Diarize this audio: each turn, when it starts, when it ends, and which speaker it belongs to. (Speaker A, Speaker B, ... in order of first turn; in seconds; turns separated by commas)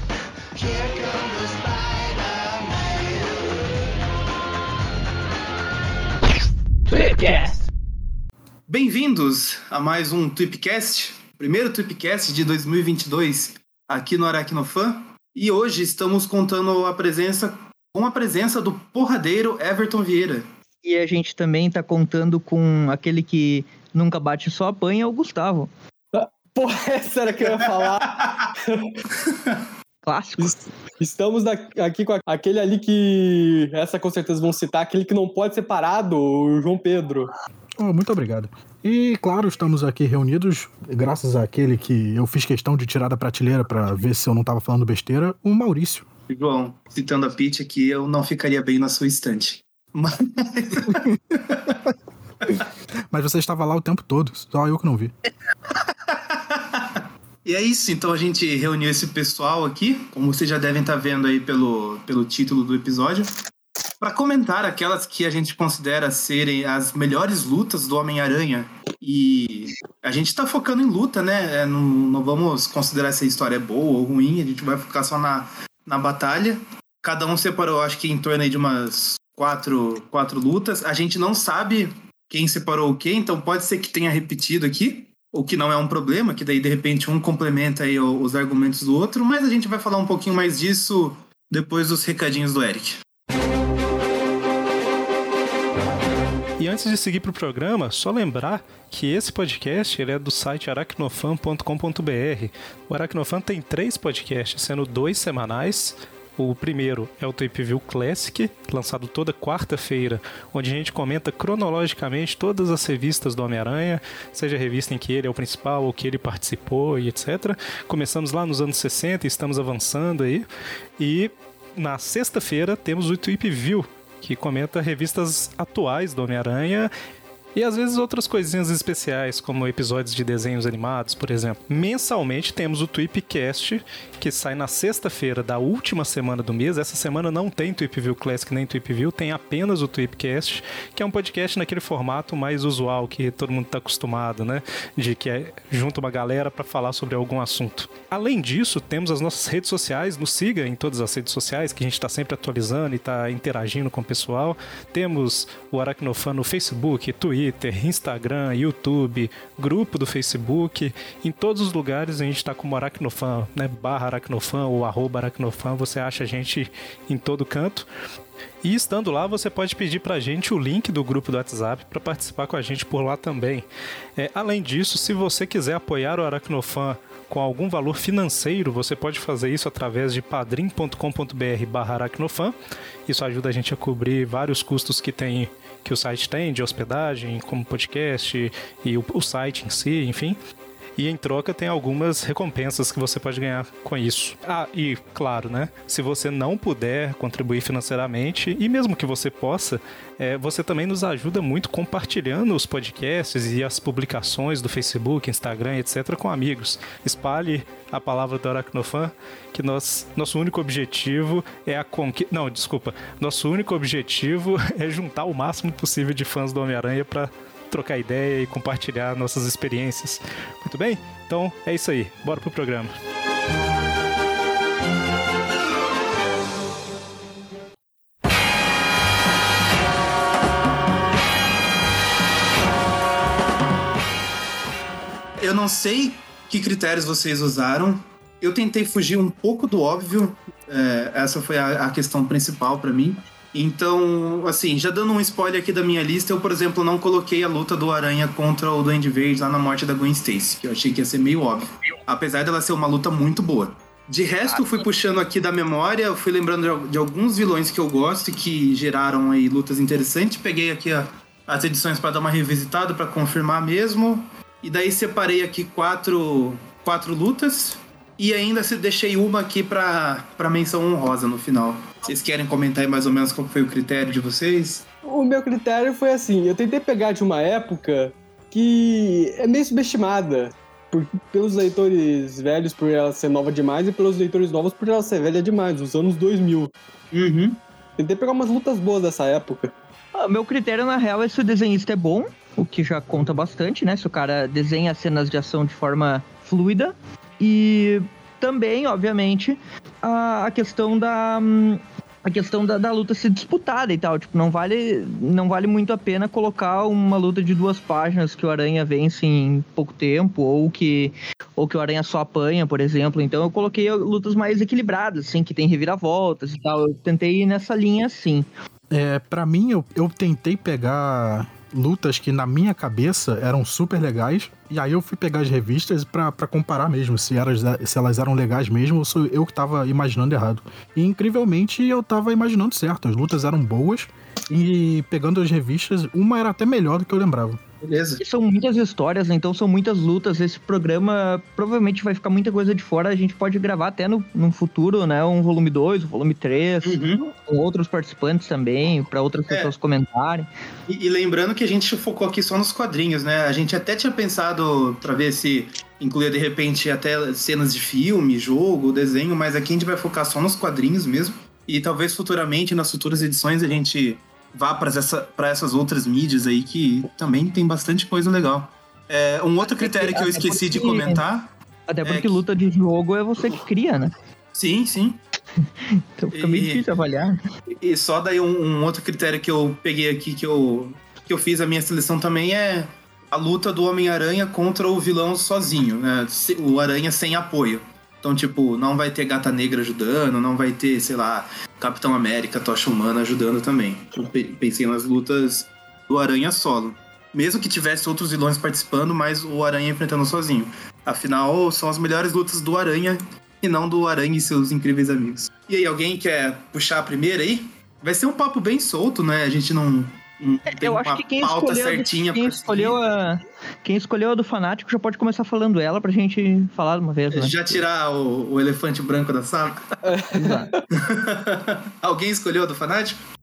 Speaker A: 0.6-3.7, Speaker A: 6.9-7.7, Speaker B: 8.7-20.5, Speaker C: 20.8-25.7, Speaker D: 26.1-28.9, Speaker B: 27.5-28.5, Speaker B: 29.2-29.7, Speaker C: 30.0-30.6, Speaker D: 30.4-37.3, Speaker E: 37.8-46.0, Speaker B: 46.3-51.8, Speaker E: 50.8-51.2, Speaker E: 53.1-55.1, Speaker B: 55.7-63.3, Speaker B: 64.0-93.0, Speaker F: 96.6-120.5, Speaker F: 121.0-126.9, Speaker F: 127.5-167.9, Speaker F: 168.6-173.7, Speaker F: 174.2-182.5, Speaker F: 183.1-190.4, Speaker F: 191.0-222.9, Speaker B: 235.4-274.8, Speaker D: 275.0-286.7, Speaker B: 287.1-287.6, Speaker D: 288.0-289.7, Speaker C: 290.1-318.4, Speaker E: 318.9-337.6, Speaker B: 337.8-338.2, Speaker C: 338.2-350.5, Speaker B: 346.8-347.2, Speaker B: 350.9-371.5, Speaker C: 369.7-371.2, Speaker C: 371.9-374.1, Speaker B: 372.0-372.4, Speaker B: 374.5-375.2, Speaker C: 375.9-377.3, Speaker B: 376.3-376.8, Speaker B: 377.7-413.0, Speaker C: 410.7-417.6, Speaker B: 417.3-419.9, Speaker D: 420.0-420.8, Speaker C: 420.3-420.7, Speaker B: 420.9-423.2